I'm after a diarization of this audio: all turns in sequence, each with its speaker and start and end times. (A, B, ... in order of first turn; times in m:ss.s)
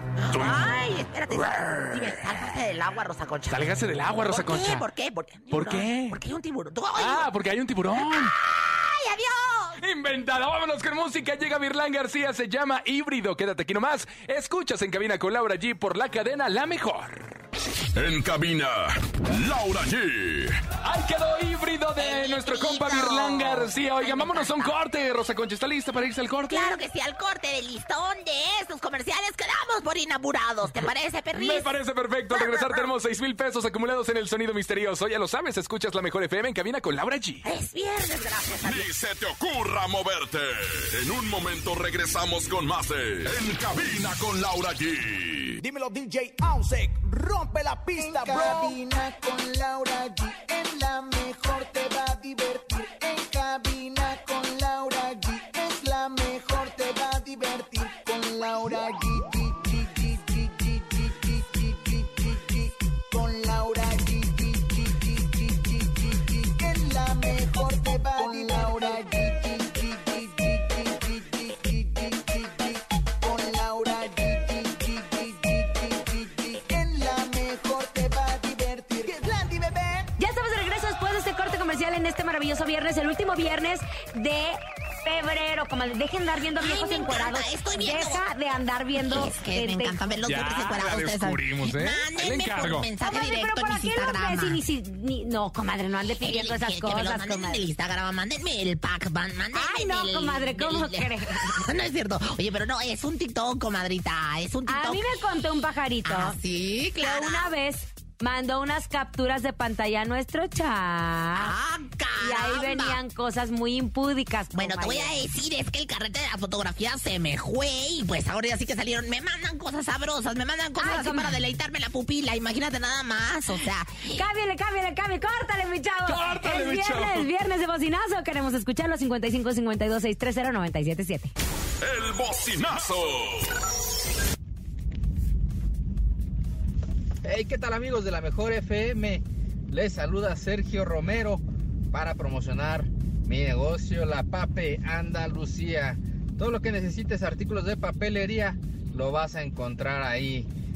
0:00.2-0:03.7 A
0:00.3-0:00.8 B
0:03.5-0:04.8 B
0:04.3-0:07.3 A
0:05.5-0:06.2 B
0:07.0-0:08.3 B
0:08.0-0:09.8 A
0:09.8-0:17.3 B
0:18.0-0:20.6 C
0:20.8-0:26.8 B
0:22.0-0:24.7 A
0:26.5-0:31.7 A
0:31.3-0:37.4 B
0:32.3-0:32.9 A
0:37.4-0:38.9 A
0:38.6-0:45.6 C
0:45.6-0:48.8 D
0:47.9-1:20.1 E
1:08.2-1:08.7 D
1:20.2-1:30.0 F
1:26.6-1:28.2 A
1:29.0-1:34.6 A
1:30.2-1:32.9 B
1:33.0-1:37.6 F
1:36.2-1:45.1 A
1:39.5-1:41.6 F
1:44.7-1:46.4 F
1:46.0-1:47.5 A
1:47.0-1:51.5 F
1:51.3-1:53.0 A
1:52.2-1:55.1 F
1:54.5-2:04.2 A
2:00.8-2:01.4 F
2:04.1-2:11.3 F
2:06.0-2:07.3 B
2:11.8-2:13.6 C
2:17.2-2:30.5 G